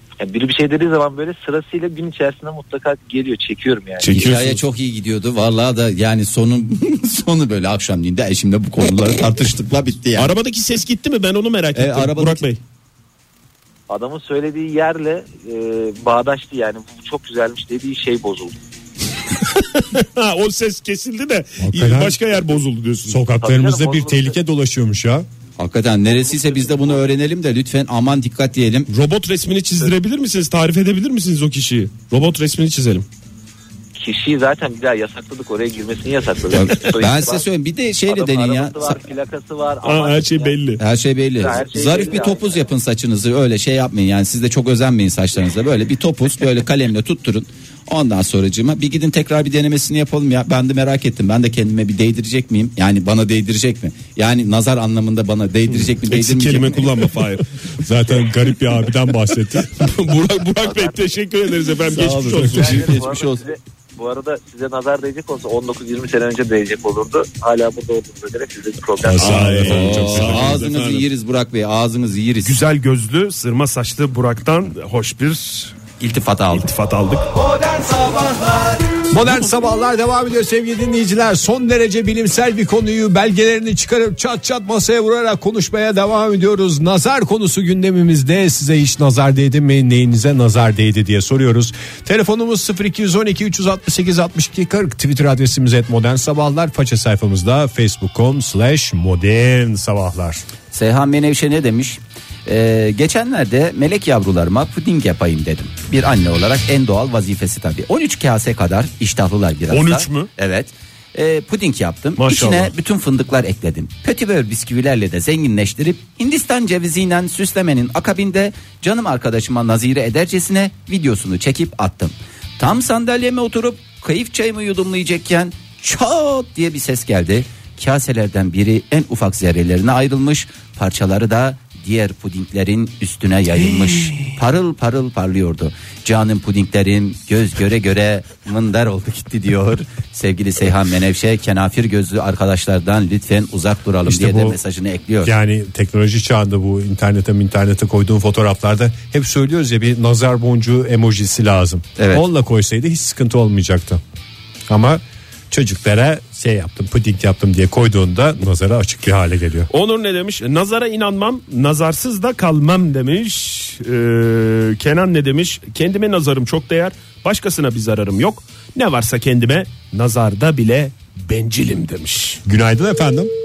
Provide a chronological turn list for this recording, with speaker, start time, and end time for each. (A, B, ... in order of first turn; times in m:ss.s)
0:00.2-0:04.3 A
0:04.0-0:04.6 B
0:04.1-0:10.3 C
0:10.2-0:12.6 B
0:11.7-0:12.4 C
0:13.9-0:18.6 A
0:19.5-0:23.2 B
0:21.6-0:22.2 D
0:23.1-0:25.2 D
0:23.3-0:24.4 A
0:25.6-0:28.9 C
0:26.1-0:27.1 A
0:28.9-0:33.0 B
0:34.0-0:37.4 A
0:36.5-0:39.0 C
0:38.1-0:40.6 A
0:39.8-0:40.8 B
0:40.8-0:56.9 C
0:41.4-0:42.7 A
0:55.7-0:57.4 B
0:57.8-0:59.9 D
0:59.7-1:03.0 B
1:00.6-1:09.9 A
1:01.9-1:03.4 C
1:09.0-1:10.6 D
1:09.2-1:11.0 B
1:09.6-1:12.6 C
1:12.4-1:15.8 B
1:16.0-1:16.7 C
1:16.5-1:17.3 B
1:17.3-1:18.9 C
1:19.1-1:40.4 D
1:40.7-2:25.3 C
1:49.7-1:50.3 B
1:52.2-1:52.7 B
2:24.0-2:24.6 D
2:25.2-2:34.0 D
2:32.0-2:32.2 C
2:34.7-2:39.7 D
2:39.7-2:52.4 B
2:52.4-2:53.3 D